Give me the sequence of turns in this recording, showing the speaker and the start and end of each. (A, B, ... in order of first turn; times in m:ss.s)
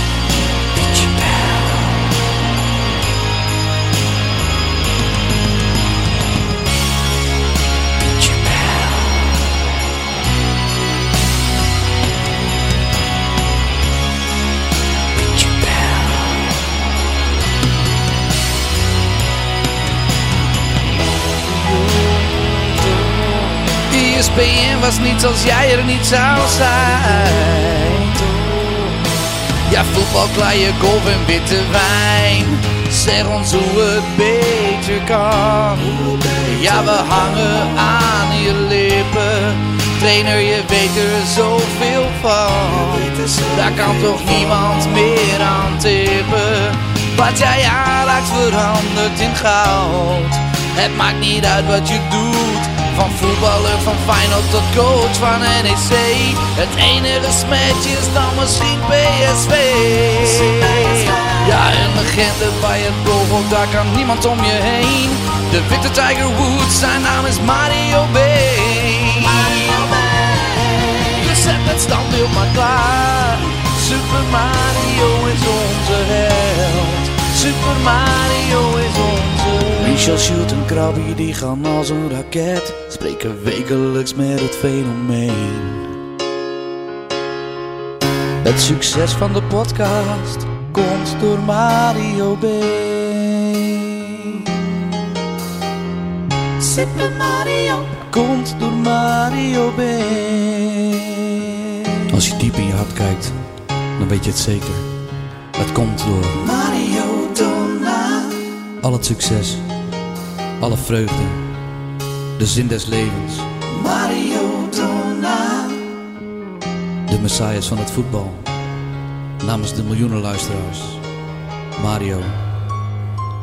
0:21.4-1:25.9 A
1:28.4-1:34.6 A
1:36.6-1:41.4 A
1:42.1-1:43.3 A
1:44.0-1:44.9 A
1:45.6-1:49.6 A
1:50.6-1:51.4 A
1:52.4-1:55.8 A
1:57.1-1:58.5 A
1:59.4-2:01.0 A
2:01.8-2:02.4 A